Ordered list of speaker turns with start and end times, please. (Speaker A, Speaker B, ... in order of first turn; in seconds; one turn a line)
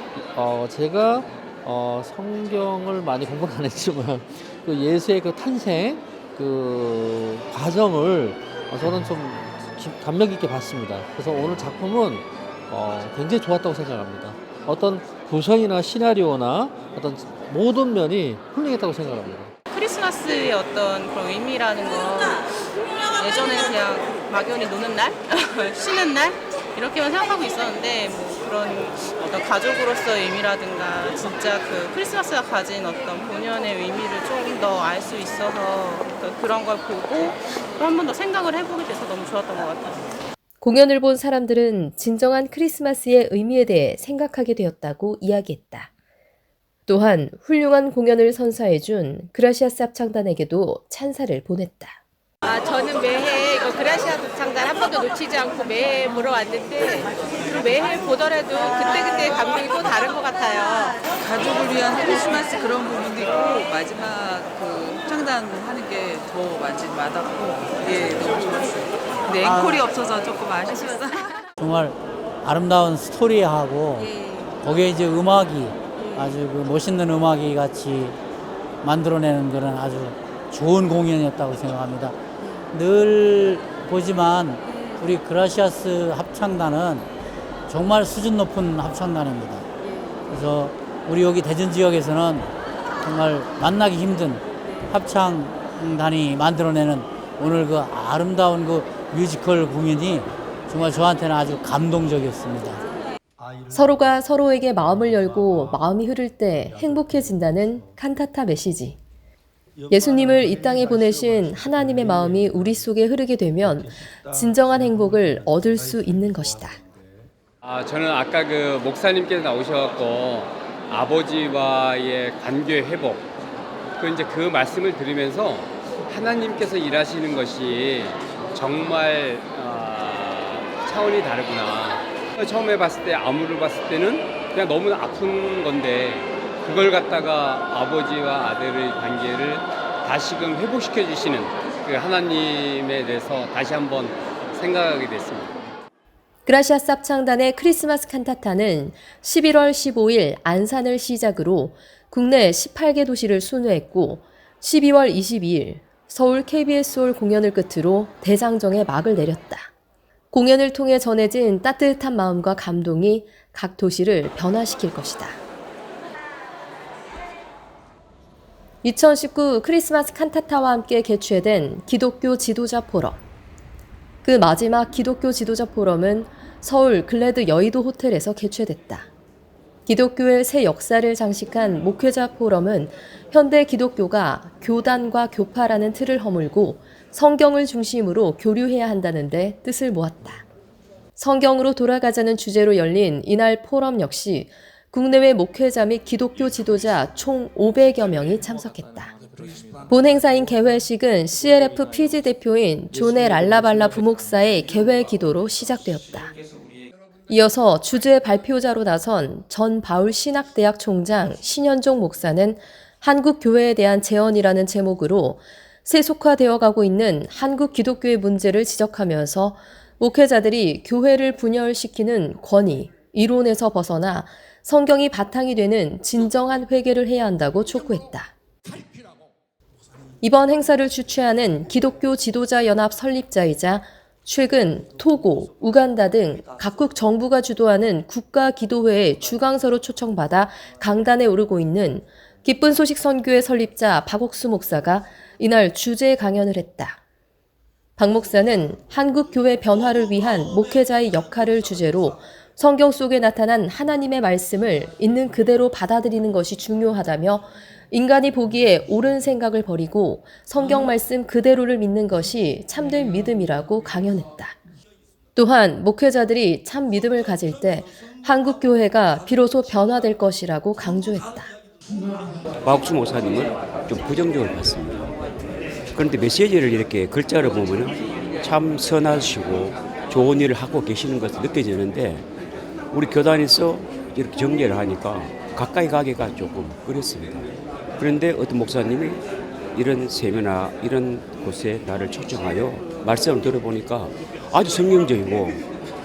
Speaker A: 0.3-19.5
Speaker B: 19.7-22.5
Speaker B: 23.1-40.0
Speaker C: 40.6-45.9
Speaker C: 46.9-52.0
Speaker D: 52.5-60.9
Speaker E: 61.0-71.4
Speaker F: 71.6-74.1
Speaker E: 74.0-74.5
Speaker F: 74.6-78.2
Speaker E: 76.0-76.3
Speaker F: 78.8-82.2
Speaker F: 82.7-87.1
Speaker F: 87.7-89.7
Speaker F: 90.3-102.8
Speaker C: 103.7-109.0
Speaker C: 109.9-116.8
Speaker G: 117.6-123.3
Speaker G: 124.0-145.6
Speaker C: 146.4-159.7
Speaker C: 160.3-165.4
Speaker C: 168.8-173.2
Speaker C: 174.2-179.1
Speaker C: 179.8-190.4
Speaker C: 191.2-199.1
Speaker C: 199.9-206.3
Speaker C: 207.3-228.3
Speaker C: 230.2-247.0
Speaker C: 248.0-264.6
Speaker C: 265.3-271.5
Speaker H: 272.6-275.1
Speaker H: 275.9-282.3
Speaker H: 282.9-289.2
Speaker H: 289.7-295.6